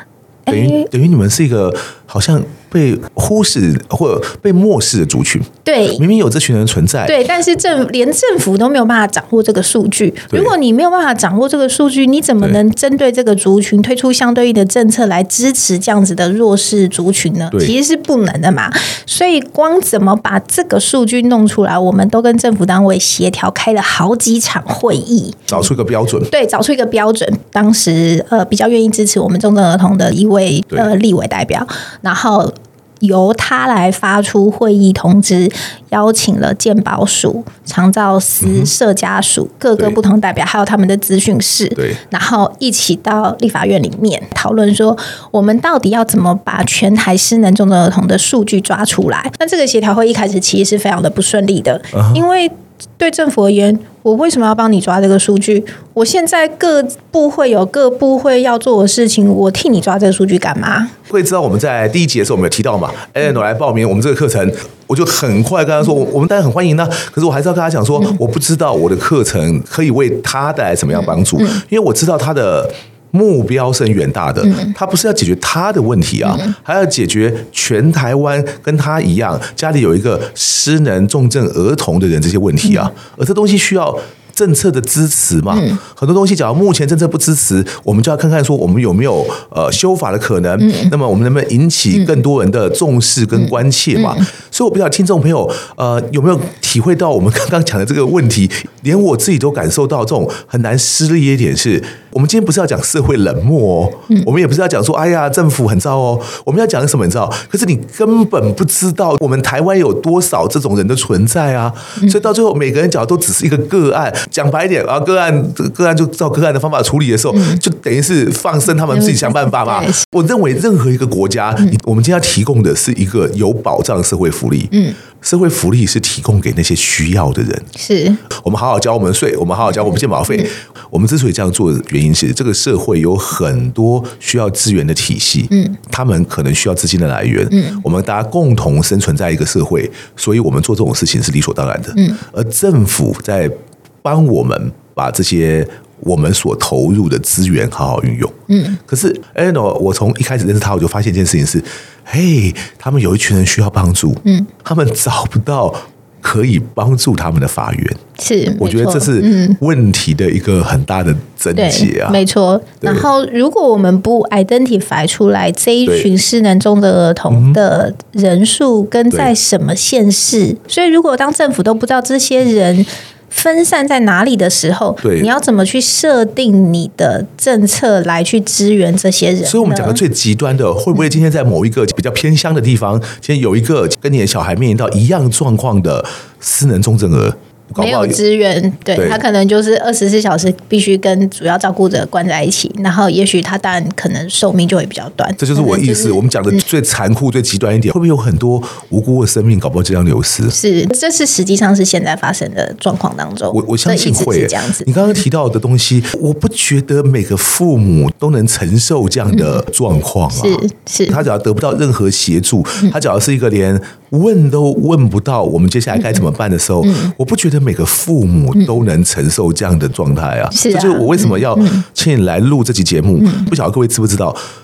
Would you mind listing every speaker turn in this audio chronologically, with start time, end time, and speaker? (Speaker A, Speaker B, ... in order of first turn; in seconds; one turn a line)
Speaker A: 0.5-0.9
Speaker B: 0.5-7.2
Speaker A: 5.7-6.0
Speaker A: 7.1-25.7
Speaker B: 25.5-26.3
Speaker A: 26.3-60.9
Speaker B: 38.4-38.7
Speaker B: 51.9-52.2
Speaker B: 61.1-127.7
Speaker A: 70.9-71.6
Speaker A: 74.4-74.8
Speaker A: 76.2-76.6
Speaker A: 85.5-85.8
Speaker A: 90.6-90.9
Speaker A: 93.3-94.3
Speaker A: 117.3-117.6
Speaker A: 118.9-120.1
Speaker A: 124.7-125.0
Speaker A: 127.8-128.2
Speaker B: 128.4-148.3
Speaker A: 135.5-135.8
Speaker A: 137.5-137.8
Speaker A: 141.9-142.2
Speaker A: 148.5-148.8
Speaker B: 148.9-158.0
Speaker A: 158.2-159.6
Speaker B: 158.6-162.2
Speaker A: 161.6-180.0
Speaker B: 162.8-163.1
Speaker B: 167.3-167.6
Speaker B: 175.0-175.3
Speaker B: 179.4-188.2
Speaker A: 187.8-196.6
Speaker B: 189.0-189.2
Speaker B: 195.4-200.6
Speaker A: 200.5-205.2
Speaker B: 203.5-224.4
Speaker A: 209.3-209.6
Speaker A: 210.3-211.2
Speaker A: 215.9-216.2
Speaker A: 216.8-217.1
Speaker A: 220.5-221.8
Speaker A: 223.2-223.5